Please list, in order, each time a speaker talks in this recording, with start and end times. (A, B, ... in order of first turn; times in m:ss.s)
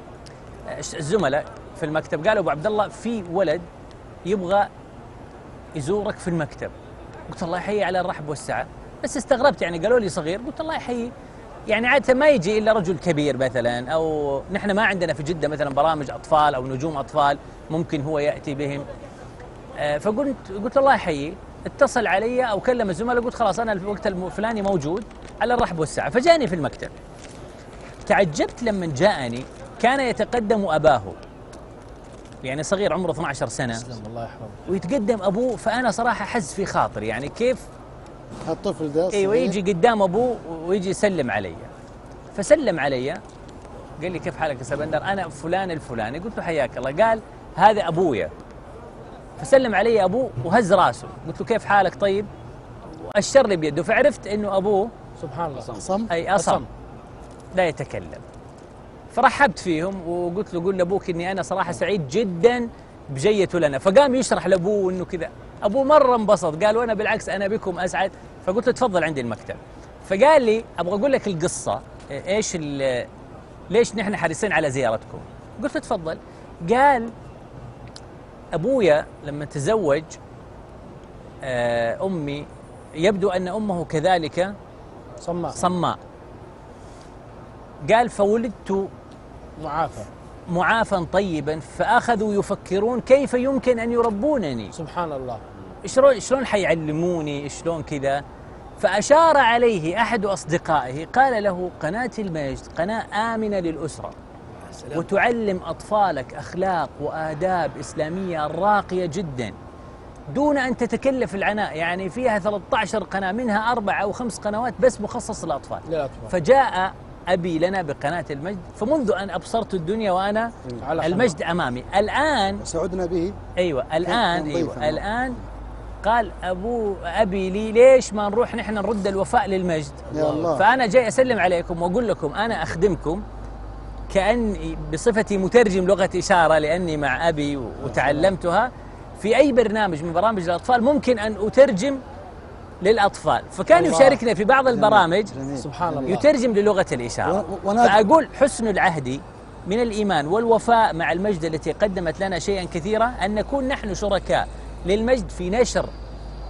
0:00.7-0:03.6 A
0:04.2-0:04.7 A
0:05.8-0:06.7 A
0:07.3-0:11.1 A
0:11.7-0:18.9 A
0:19.8-0:26.9 A
0:28.0-0:31.2 A
0:32.4-0:33.9 A
0:33.8-0:34.6 B
0:34.7-0:37.6 A
0:38.4-0:39.6 C
0:39.1-0:41.7 A
0:42.3-0:43.2 A
0:44.0-0:48.3 A
0:49.4-0:52.3 A
0:52.9-0:54.9 A
0:55.2-0:55.7 B
0:55.7-0:56.1 C
0:56.1-0:56.6 A
0:56.3-0:56.7 B
0:57.5-0:58.2 A
0:59.1-1:13.1 A
1:13.7-1:17.1 A
1:18.5-1:20.2 A
1:21.4-1:24.5 A
1:25.2-1:25.6 B
1:25.5-1:26.0 A
1:27.8-1:28.9 A
1:29.6-1:30.1 B
1:30.5-1:34.7 A
1:34.7-1:35.4 B
1:35.8-1:38.2 A
1:38.8-1:44.1 A
1:44.9-1:49.6 A
1:50.3-2:02.6 A
1:55.9-1:56.3 B
2:00.8-2:01.4 B
2:02.6-2:03.4 C
2:03.6-2:05.4 A
2:04.0-2:05.0 C
2:06.0-2:13.2 A
2:10.1-2:10.7 C
2:14.1-2:22.0 A
2:17.8-2:18.3 C
2:22.8-2:25.4 A
2:23.7-2:26.2 C
2:25.6-2:26.3 B
2:26.0-2:35.9 A
2:27.2-2:28.0 C